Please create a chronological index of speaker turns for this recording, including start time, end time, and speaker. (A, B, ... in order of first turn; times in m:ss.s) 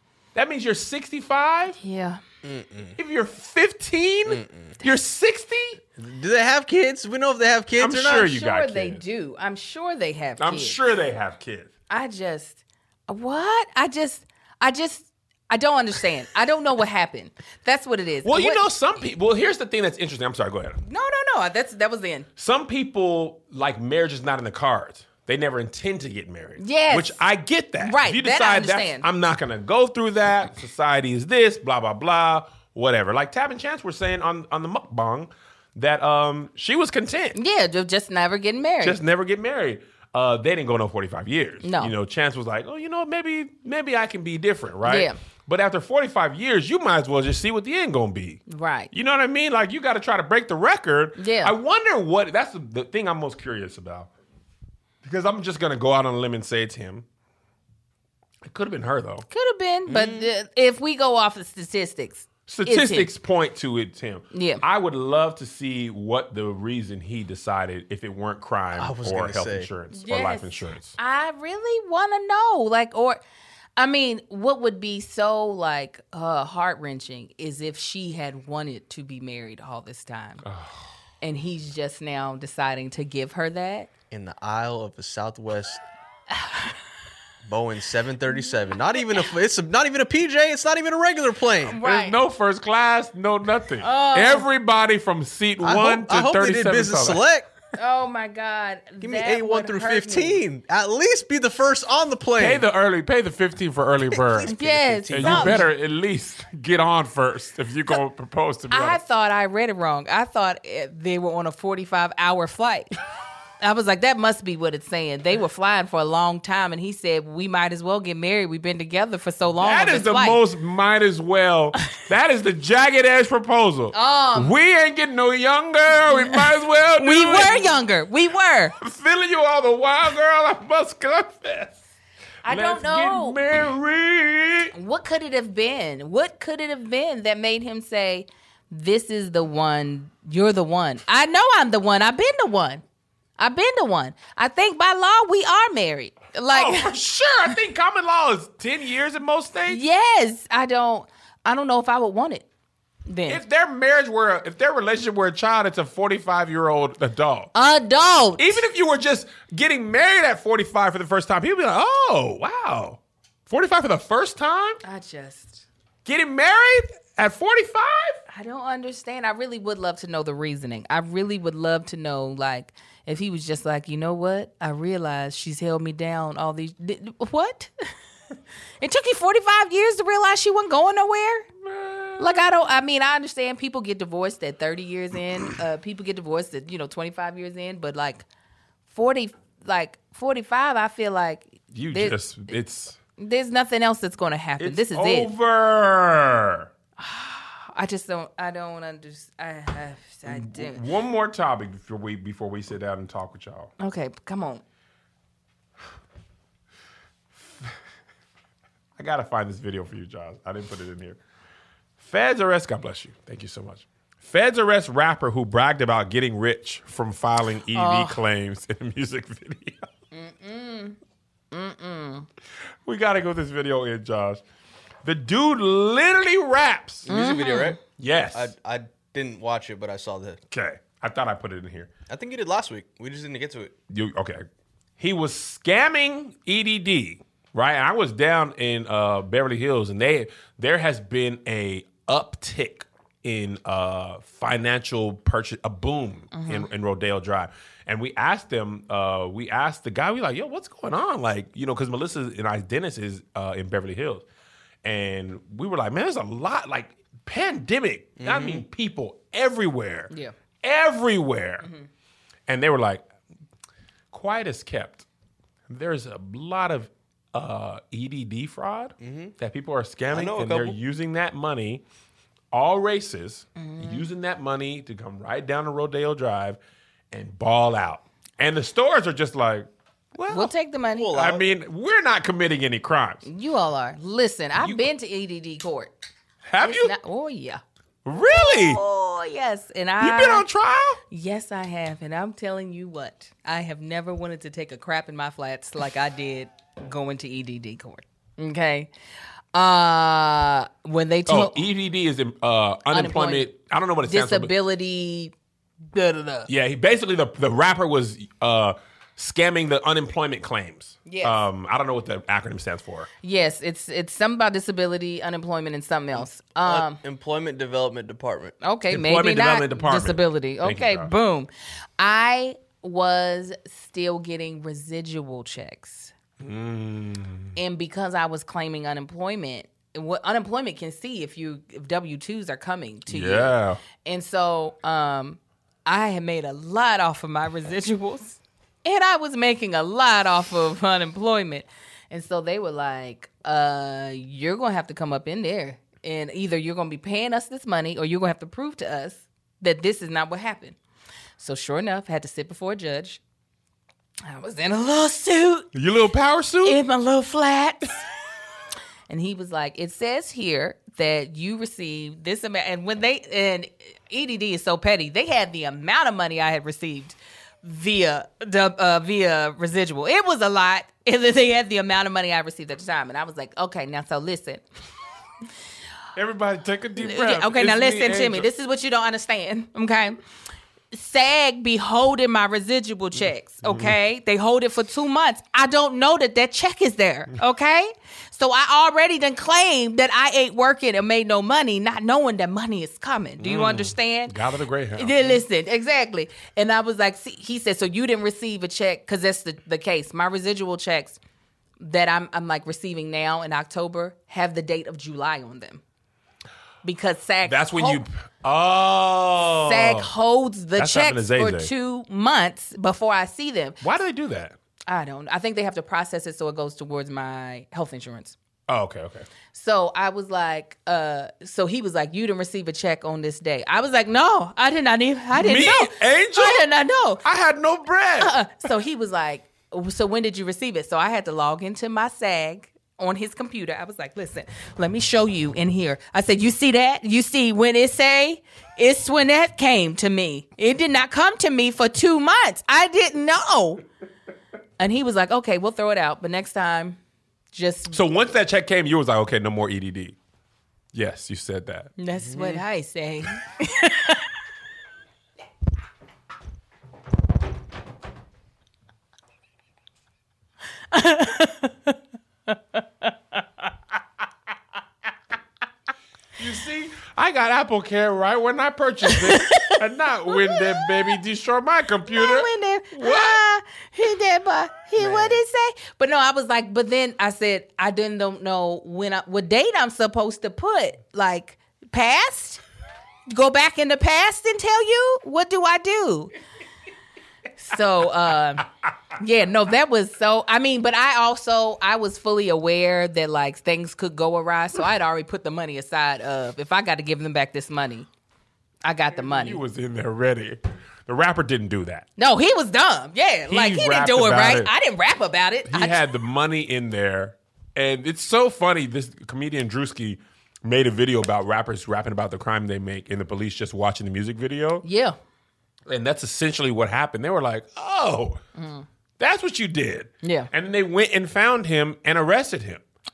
0:00.3-0:01.8 A
0:01.8-0:02.2 B
0:02.4-0:02.9 C
0:03.0-0:05.8 A
0:04.3-0:04.7 C
0:06.0-0:08.3 C
0:07.8-0:09.0 A
0:08.1-0:10.8 B
0:10.4-0:11.7 A
0:11.9-0:18.6 B
0:18.2-0:20.8 A
0:20.8-0:22.3 B
0:22.4-0:37.4 A
0:26.6-0:27.2 B
0:27.8-0:29.0 B
0:37.3-0:39.0 B
0:38.8-0:54.1 A
0:41.6-0:41.9 B
0:44.8-0:45.2 B
0:48.5-0:48.9 B
0:51.2-0:51.5 B
0:55.0-0:57.0 A
0:58.4-0:59.3 A
0:59.3-1:03.1 B
0:59.9-1:00.3 C
1:02.5-1:11.0 A
1:04.3-1:04.6 B
1:08.8-1:09.7 C
1:09.9-1:13.2 B
1:13.8-1:20.4 B
1:20.4-1:20.8 A
1:21.2-1:23.9 B
1:24.1-1:25.8 C
1:26.4-1:26.7 B
1:27.4-1:31.8 C
1:31.7-1:32.2 B
1:31.8-1:37.2 A
1:33.8-1:34.4 B
1:35.6-1:37.5 C
1:37.8-1:40.4 B
1:39.0-1:42.6 C
1:42.4-1:44.5 A
1:44.3-1:45.7 C
1:44.5-1:45.6 B
1:45.0-1:49.0 A
1:48.7-1:52.9 B
1:53.6-2:00.4 B
1:59.6-2:07.7 A
2:03.9-2:04.6 B
2:06.0-2:08.7 B
2:08.8-2:11.8 A
2:12.4-2:13.4 B
2:12.5-2:14.7 A
2:14.7-2:22.8 B
2:23.4-2:26.9 B
2:26.5-2:29.8 A
2:29.7-2:32.4 B
2:33.1-2:33.4 B
2:33.3-2:37.5 A
2:37.5-2:38.6 B
2:38.4-2:44.8 A
2:44.8-2:45.6 B
2:46.0-2:48.2 A
2:48.3-2:57.7 B
2:58.8-3:01.5 B
3:01.6-3:02.4 A
3:02.2-3:08.2 B
3:08.9-3:12.2 B
3:11.7-3:13.0 A
3:13.2-3:15.3 B
3:14.6-3:16.7 A
3:17.0-3:20.8 B
3:20.2-3:23.7 A
3:23.8-3:24.6 B
3:29.0-3:31.2 A
3:32.0-3:39.9 A
3:37.7-3:38.2 B
3:40.1-3:41.0 B
3:41.5-3:42.3 B
3:42.8-3:44.4 A
3:45.0-3:47.1 A
3:47.0-3:47.8 C
3:47.1-3:47.8 B
3:48.0-3:48.5 A
3:48.3-3:50.4 C
3:50.5-3:51.9 A
3:52.1-3:53.7 C
3:53.9-3:54.4 A
3:55.0-4:14.2 A
4:06.3-4:06.7 B
4:14.8-4:20.1 A
4:18.2-4:18.6 C
4:20.6-4:21.7 A
4:22.5-4:23.0 A
4:24.1-4:25.0 A
4:25.7-4:31.8 A
4:29.0-4:29.3 C
4:30.1-4:30.8 C
4:32.5-4:36.6 A
4:33.6-4:34.1 B
4:37.1-4:40.5 A
4:40.3-4:41.1 B
4:41.0-4:41.4 C
4:41.1-4:43.2 A
4:43.2-4:45.9 B
4:44.6-4:44.9 A
4:46.4-4:46.9 A
4:46.6-4:47.6 B
4:48.0-4:48.8 A
4:48.3-4:50.4 B
4:50.0-4:51.0 A
4:51.1-4:58.9 B
4:59.5-5:01.6 B
5:01.3-5:04.5 A
5:02.9-5:03.5 B
5:04.0-5:05.3 B
5:05.9-5:06.5 B
5:06.5-5:13.1 A
5:11.0-5:11.4 B
5:13.2-5:17.0 B
5:16.6-5:18.6 C
5:18.6-5:26.1 B
5:18.9-5:21.1 A
5:26.4-5:27.6 A
5:27.6-5:50.8 B
5:33.1-5:33.8 A
5:51.4-5:53.2 B
5:54.3-5:55.7 B
5:55.7-5:56.8 A
5:56.6-5:58.0 B
5:59.1-6:14.6 B
6:16.1-6:18.5 A
6:17.0-6:20.2 B
6:20.9-6:34.3 B
6:23.6-6:23.9 A
6:33.4-6:35.4 A
6:35.0-6:41.2 B
6:41.8-6:45.8 B
6:46.8-6:48.0 B
6:47.4-6:50.1 A
6:49.5-6:53.8 B
6:50.8-6:51.7 A
6:53.8-6:54.5 A
6:54.9-6:58.4 B
6:58.7-6:59.3 A
6:59.5-7:07.2 B
7:05.3-7:06.7 A
7:07.2-7:08.3 A
7:08.2-7:23.8 B
7:24.8-7:27.0 B
7:27.5-7:28.0 B
7:27.9-7:30.2 A
7:30.9-7:31.9 A
7:32.0-7:34.2 B
7:32.2-7:32.6 C
7:40.9-7:42.0 B
7:42.5-7:43.1 B
7:46.4-7:53.4 A
7:49.0-7:51.1 B
7:52.1-8:02.6 B
7:55.0-7:55.4 C
8:03.3-8:06.3 B
8:07.6-8:18.1 B
8:18.8-8:19.6 B
8:19.2-8:22.0 A
8:22.2-8:26.0 B
8:23.5-8:24.7 A
8:25.7-8:34.8 A
8:34.8-8:35.2 B
8:35.9-8:38.4 A
8:38.6-8:38.8 B
8:39.2-8:42.8 A
8:40.2-8:40.5 B